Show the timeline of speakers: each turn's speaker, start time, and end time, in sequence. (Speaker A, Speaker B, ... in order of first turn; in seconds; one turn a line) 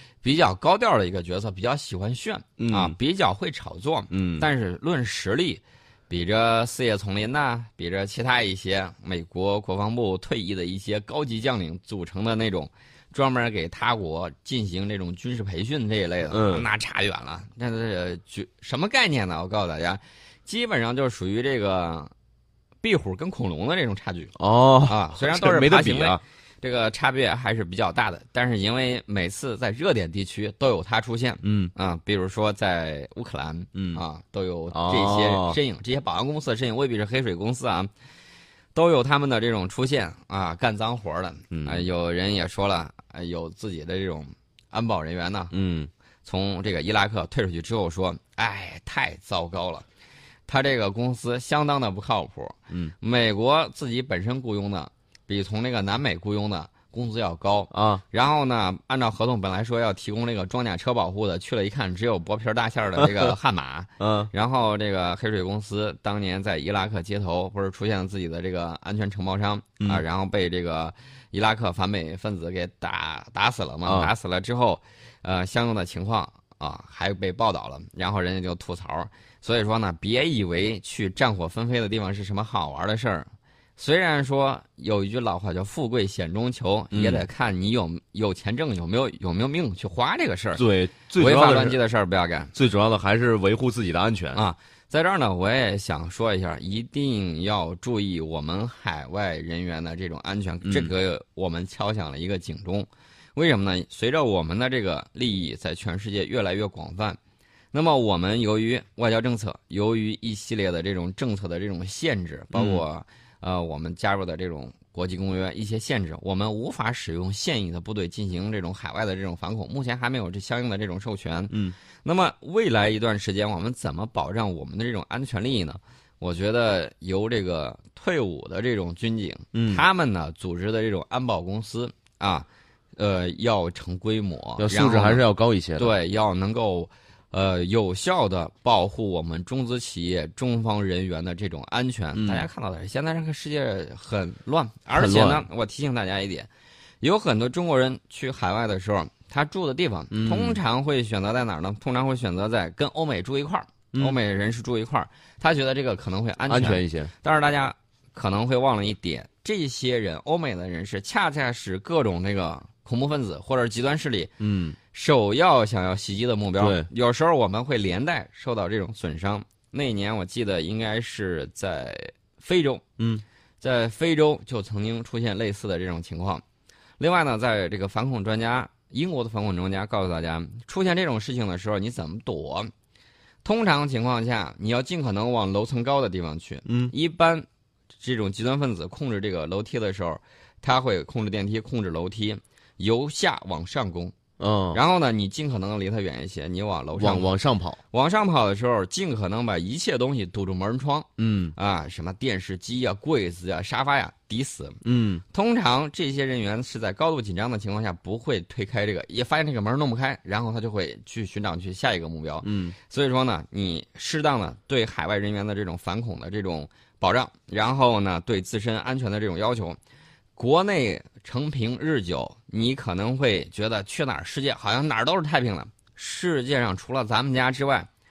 Speaker A: 0.2-22.1
Speaker B: 2.6-2.9
Speaker B: 4.1-4.5
Speaker B: 16.3-16.7
Speaker A: 22.8-24.3
Speaker B: 24.4-26.2
Speaker A: 24.9-37.9
Speaker B: 31.4-31.7
Speaker B: 33.7-34.0
Speaker B: 34.7-35.6
Speaker A: 38.7-45.5
Speaker B: 41.5-41.8
Speaker B: 45.5-45.9
Speaker A: 46.2-49.8
Speaker A: 50.5-90.6
Speaker B: 57.7-58.0
Speaker B: 63.0-63.3
Speaker B: 64.0-64.3
Speaker B: 73.8-74.1
Speaker B: 86.9-87.2
Speaker B: 90.5-91.8
Speaker A: 91.2-92.5
Speaker B: 92.5-94.4
Speaker A: 94.3-107.2
Speaker B: 100.6-100.9
Speaker A: 107.7-135.2
Speaker B: 112.5-112.8
Speaker B: 129.5-129.8
Speaker B: 134.6-135.9
Speaker A: 135.8-146.5
Speaker B: 142.2-142.5
Speaker B: 144.9-145.4
Speaker A: 147.0-164.3
Speaker B: 150.1-150.6
Speaker B: 156.5-157.1
Speaker B: 164.4-164.8
Speaker A: 164.9-172.8
Speaker B: 166.6-166.9
Speaker B: 173.0-173.2
Speaker A: 173.6-176.4
Speaker A: 177.0-182.7
Speaker A: 183.4-187.4
Speaker B: 186.7-186.9
Speaker A: 188.0-194.1
Speaker B: 194.4-194.8
Speaker A: 194.7-197.3
Speaker B: 197.0-197.8
Speaker A: 197.9-204.8
Speaker B: 201.2-201.5
Speaker B: 204.8-205.2
Speaker A: 205.3-219.8
Speaker B: 212.4-212.7
Speaker A: 220.3-227.9